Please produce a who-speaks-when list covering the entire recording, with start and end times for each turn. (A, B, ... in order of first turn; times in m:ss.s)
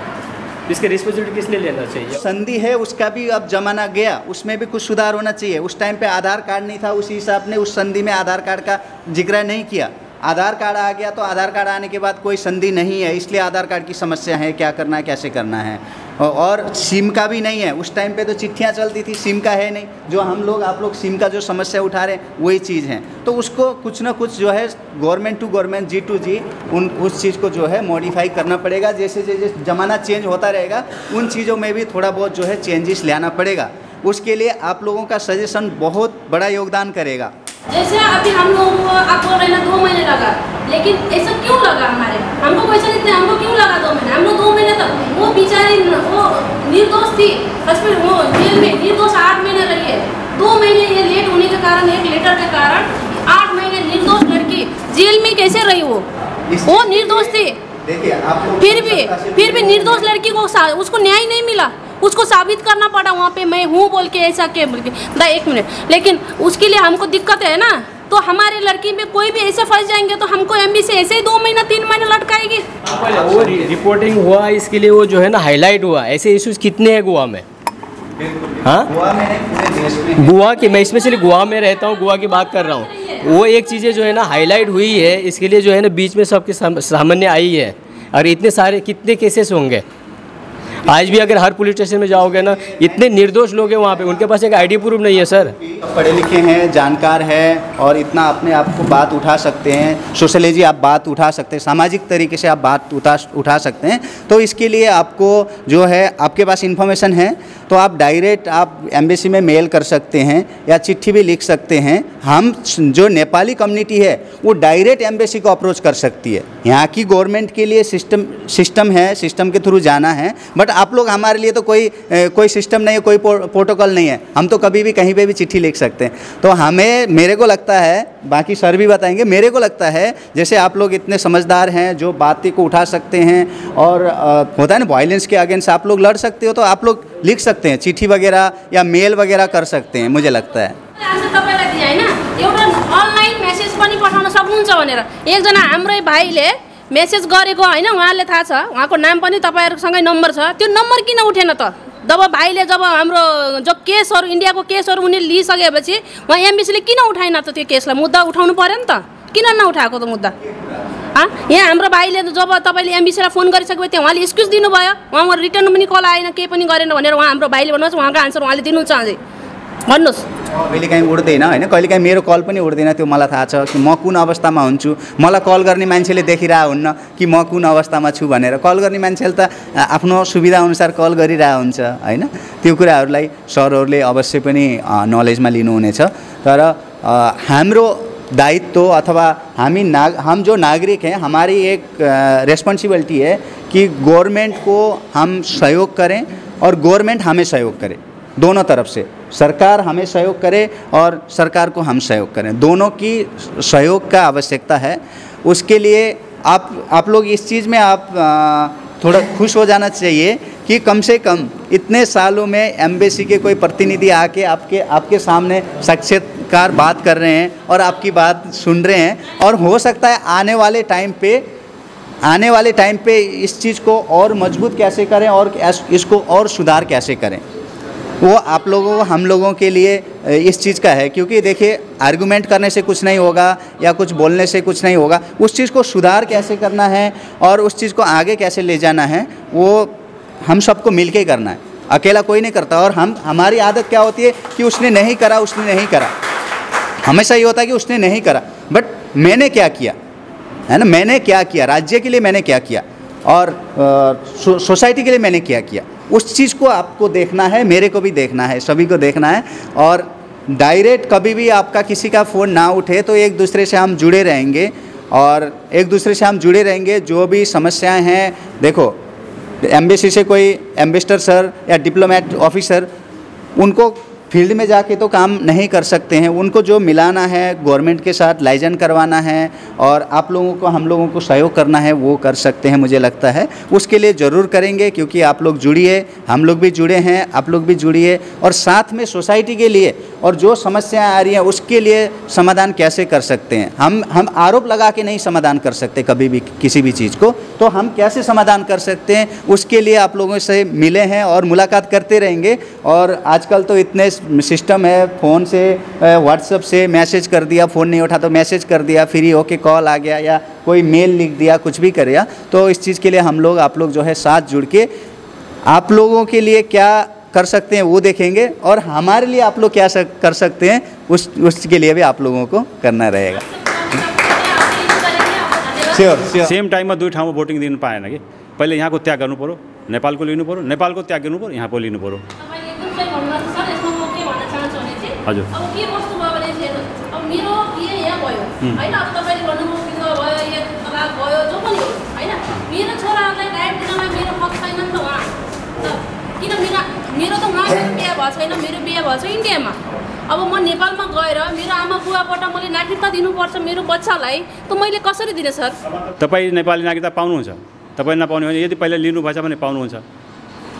0:00.7-0:02.2 A
0:02.1-0:37.3 B
0:37.7-0:56.1 C
0:56.5-1:00.1 B
0:56.6-0:57.6 C
0:58.6-1:12.7 C
1:12.8-1:17.4 A
1:13.3-1:13.7 B
1:18.2-1:20.4 B
1:18.6-1:18.9 A
1:20.2-1:29.8 A
1:20.5-1:24.5 C
1:30.8-1:31.4 B
1:30.8-1:35.5 A
1:32.0-2:20.8 B
2:21.0-2:40.4 C
2:40.5-2:40.8 B
2:41.1-2:49.2 C
2:49.9-2:50.3 C
2:50.5-3:41.4 B
3:42.2-3:47.4 B
3:48.2-4:06.1 B
4:07.0-4:10.0 B
4:10.7-4:29.0 B
4:29.6-4:32.9 B
4:33.6-5:14.9 B
5:15.7-5:23.4 B
5:23.3-5:26.0 C
5:25.9-5:26.6 B
5:26.4-5:32.2 D
5:32.4-5:55.8 C
5:55.9-6:00.0 D